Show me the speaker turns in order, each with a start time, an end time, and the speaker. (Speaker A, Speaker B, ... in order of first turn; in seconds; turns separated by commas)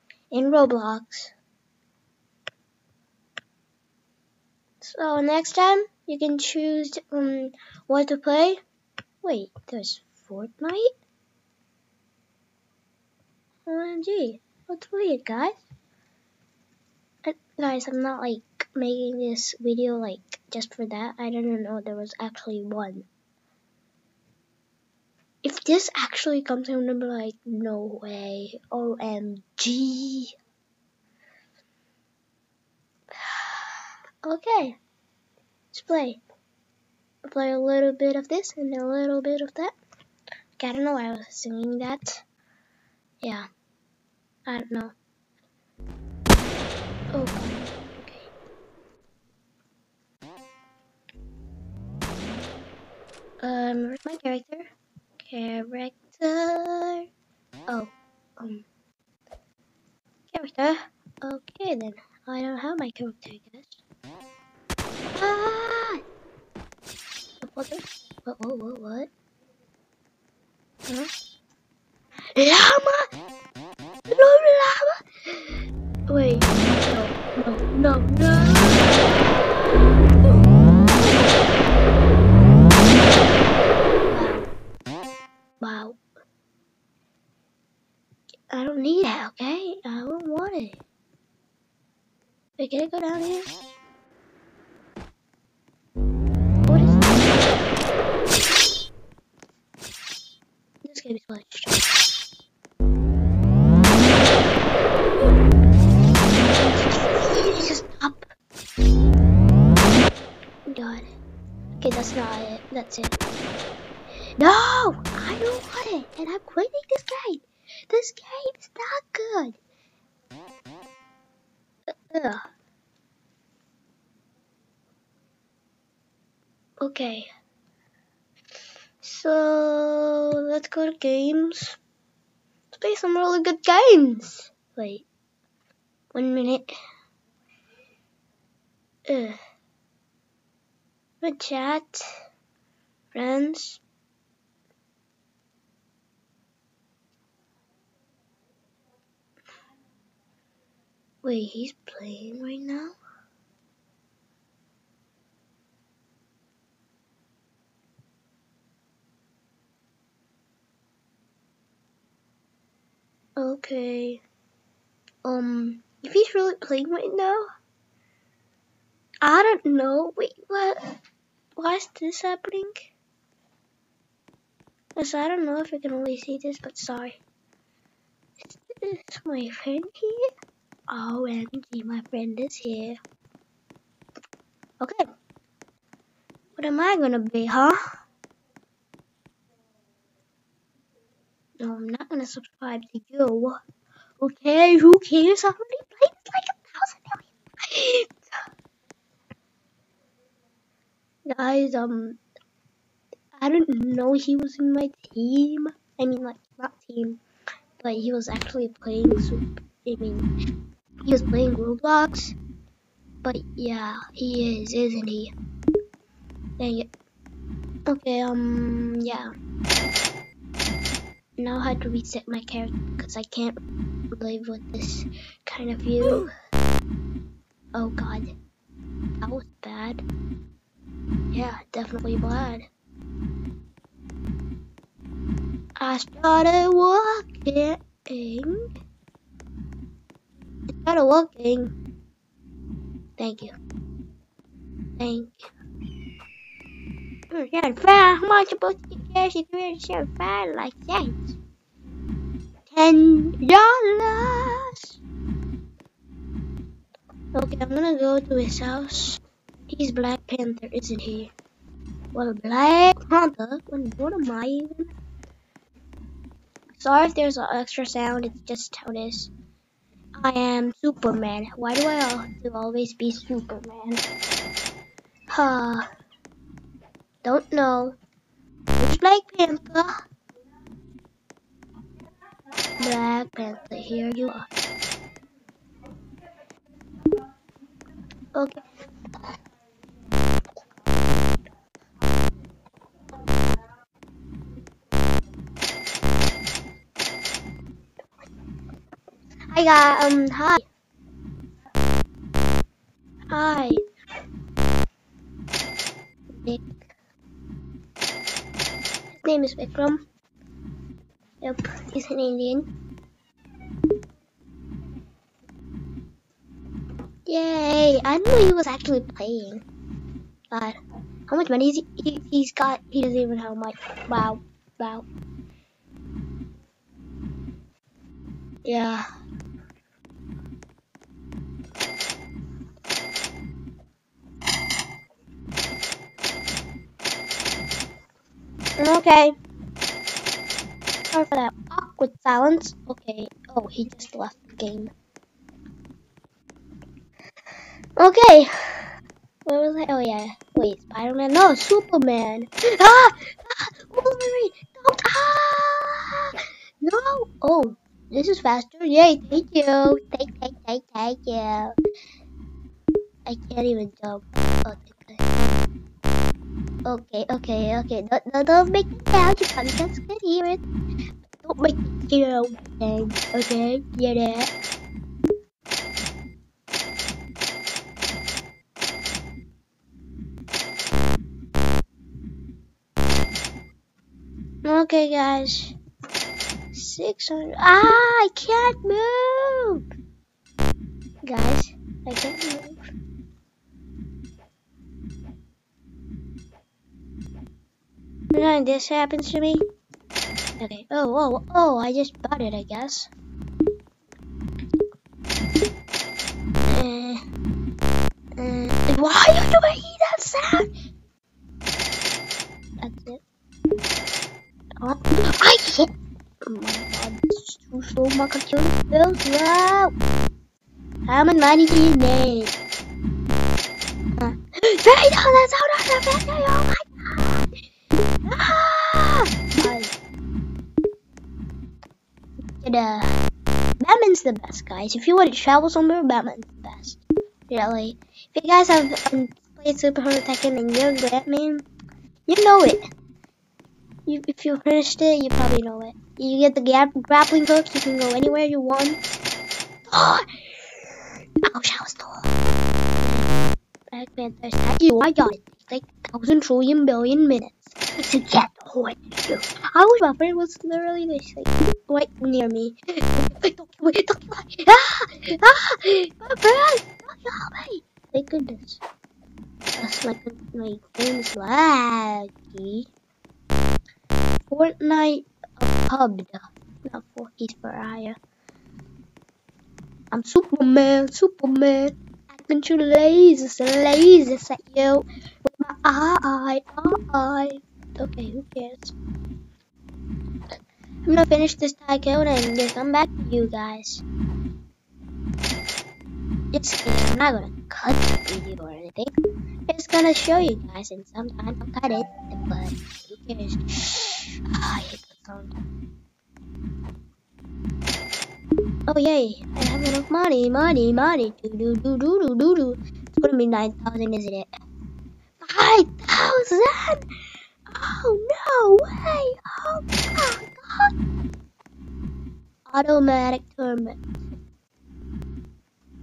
Speaker A: 0.3-1.3, Speaker A: 4.8-8.6, Speaker A: 9.2-10.9, Speaker A: 13.7-15.5, Speaker A: 17.2-23.1, Speaker A: 25.4-30.3, Speaker A: 33.2-33.6, Speaker A: 34.2-34.8, Speaker A: 35.7-36.2, Speaker A: 37.2-39.7, Speaker A: 40.6-42.2, Speaker A: 43.2-43.5, Speaker A: 44.5-44.9, Speaker A: 47.1-48.3, Speaker A: 53.4-54.7, Speaker A: 55.2-57.1, Speaker A: 57.7-58.7, Speaker A: 60.3-63.8, Speaker A: 65.2-66.0, Speaker A: 67.4-69.1, Speaker A: 72.3-73.1, Speaker A: 74.1-81.4, Speaker A: 84.1-84.5, Speaker A: 85.6-86.0, Speaker A: 88.5-90.8, Speaker A: 92.6-93.5, Speaker A: 96.7-97.4, Speaker A: 100.8-101.8, Speaker A: 106.3-108.3, Speaker A: 110.7-111.1, Speaker A: 111.8-113.2, Speaker A: 114.4-119.6, Speaker A: 122.1-122.4, Speaker A: 126.8-127.3, Speaker A: 129.0-131.8, Speaker A: 132.8-135.1, Speaker A: 136.1-136.7, Speaker A: 139.1-139.4, Speaker A: 141.2-142.1, Speaker A: 143.1-143.8, Speaker A: 151.2-153.0, Speaker A: 163.4-164.2, Speaker A: 165.2-167.5, Speaker A: 169.2-170.8, Speaker A: 171.6-172.9, Speaker A: 175.0-177.2, Speaker A: 178.4-180.3, Speaker A: 180.9-183.0, Speaker A: 184.8-185.1, Speaker A: 186.6-187.8, Speaker A: 191.6-193.6, Speaker A: 194.2-198.3, Speaker A: 201.3-202.2, Speaker A: 203.3-207.2, Speaker A: 207.8-210.3, Speaker A: 211.0-212.4, Speaker A: 213.2-215.3, Speaker A: 216.6-216.9, Speaker A: 217.9-219.3, Speaker A: 221.4-223.6, Speaker A: 224.1-226.3, Speaker A: 227.8-228.3, Speaker A: 229.2-230.0, Speaker A: 231.3-232.7, Speaker A: 235.8-238.6, Speaker A: 240.7-241.7, Speaker A: 243.2-243.6, Speaker A: 245.0-245.5, Speaker A: 247.3-251.4, Speaker A: 252.7-255.0, Speaker A: 257.3-261.3, Speaker A: 262.1-264.9, Speaker A: 266.8-269.3, Speaker A: 270.2-274.0, Speaker A: 275.3-275.9, Speaker A: 277.2-278.0, Speaker A: 278.8-280.0, Speaker A: 282.8-284.5, Speaker A: 288.3-288.6, Speaker A: 299.5-300.7, Speaker A: 303.3-303.8, Speaker A: 306.3-306.8, Speaker A: 309.2-310.0, Speaker A: 311.4-312.7, Speaker A: 317.3-319.6, Speaker A: 320.5-320.8, Speaker A: 321.3-325.1, Speaker A: 328.6-329.1, Speaker A: 338.8-339.3, Speaker A: 341.1-344.9, Speaker A: 348.0-348.9, Speaker A: 349.4-361.7, Speaker A: 363.3-365.3, Speaker A: 366.9-370.6, Speaker A: 371.4-374.5, Speaker A: 384.6-385.8, Speaker A: 386.7-389.8, Speaker A: 391.2-392.8, Speaker A: 398.3-399.6, Speaker A: 400.6-403.1, Speaker A: 406.6-407.2, Speaker A: 408.4-410.7, Speaker A: 412.8-413.2, Speaker A: 414.8-415.9, Speaker A: 416.4-419.9, Speaker A: 421.1-422.5, Speaker A: 424.2-427.5, Speaker A: 428.2-429.9, Speaker A: 432.6-433.1, Speaker A: 433.8-441.6, Speaker A: 442.3-442.8, Speaker A: 444.1-449.2, Speaker A: 449.9-450.3, Speaker A: 451.4-452.3, Speaker A: 453.0-453.3, Speaker A: 453.9-468.8, Speaker A: 469.8-472.9, Speaker A: 474.5-478.2, Speaker A: 480.1-488.9, Speaker A: 491.1-494.0, Speaker A: 496.5-499.2, Speaker A: 499.7-505.6, Speaker A: 508.9-514.5, Speaker A: 515.4-517.0, Speaker A: 517.7-520.9, Speaker A: 522.7-524.0